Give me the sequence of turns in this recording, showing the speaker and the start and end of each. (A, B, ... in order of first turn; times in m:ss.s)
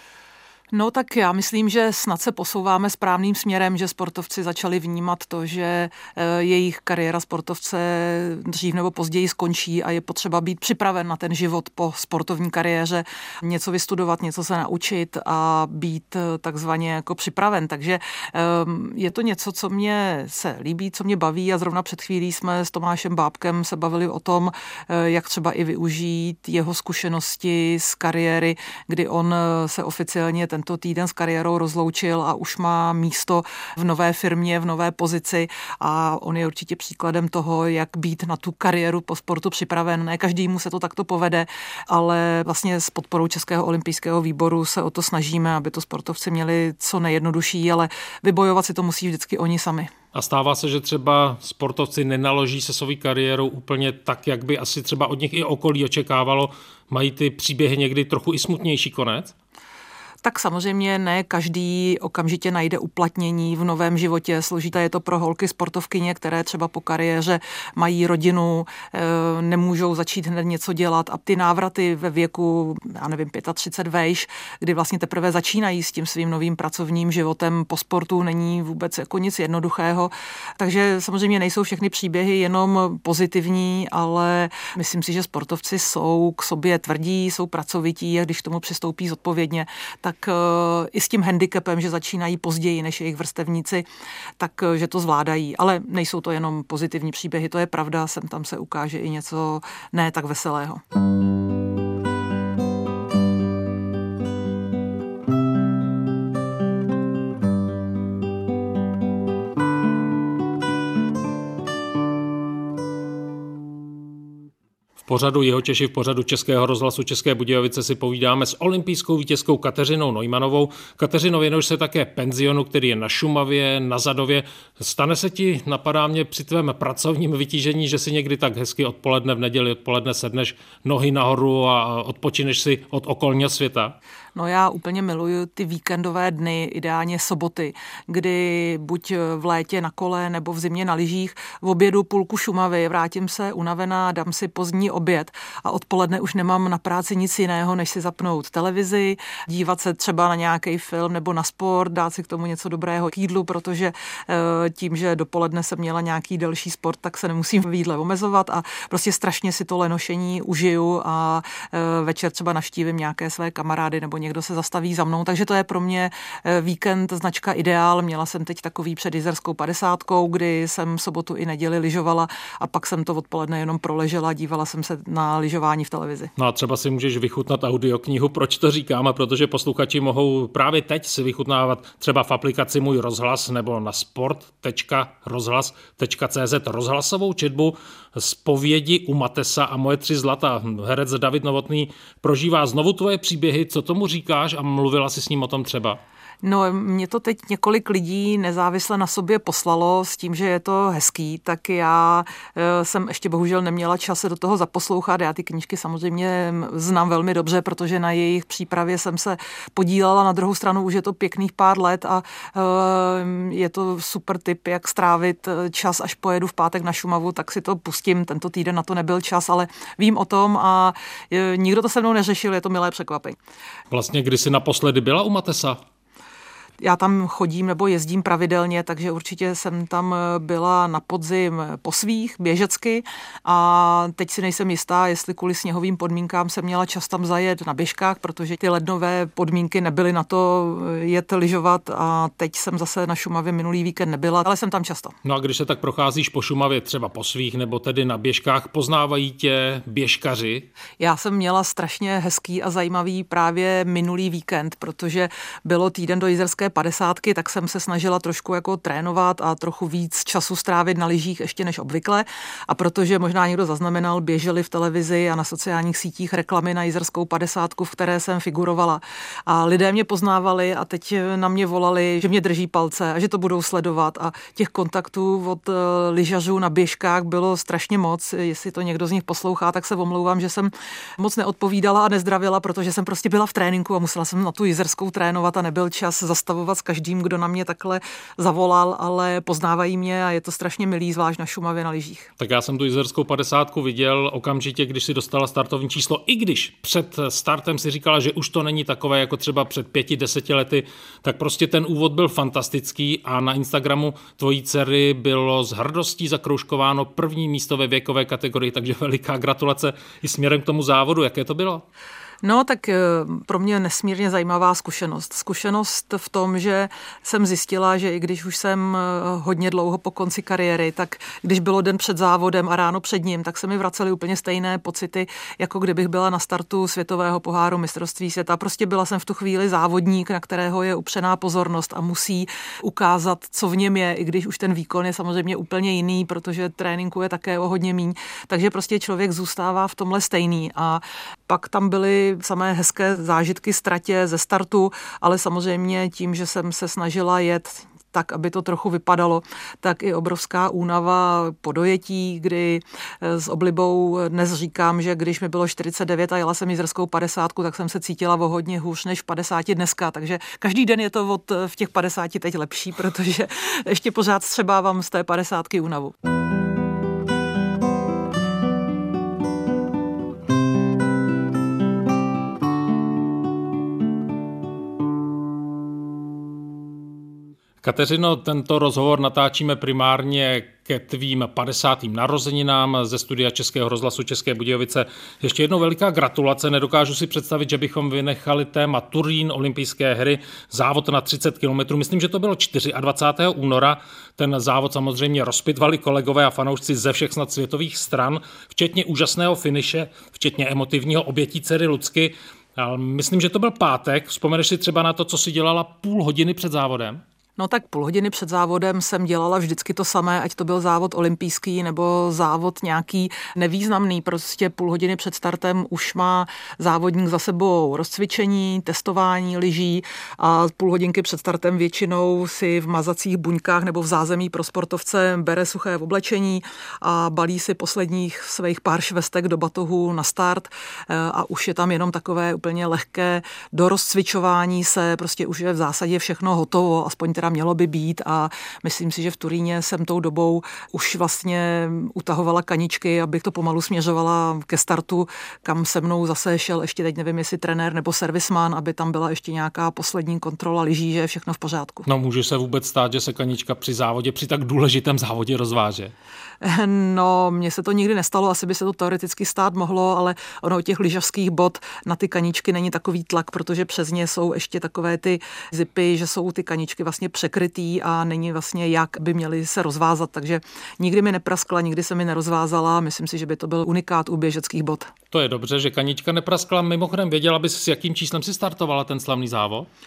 0:00.7-0:49.9 A
0:50.1-0:59.3 B
1:00.2-1:33.8 A
1:34.4-1:40.8 A
1:55.0-2:14.0 B
2:14.3-2:56.3 A
2:56.4-3:16.0 B
3:16.4-3:43.4 A
3:43.9-3:45.8 B
3:46.8-4:05.1 A
4:05.2-4:10.7 B
4:11.0-4:52.3 A
4:52.4-5:11.8 B
5:12.4-6:06.1 A
6:17.8-6:47.2 B
6:47.6-7:32.1 A
7:32.0-7:36.1 B
7:36.6-7:55.1 A
7:55.3-7:59.9 B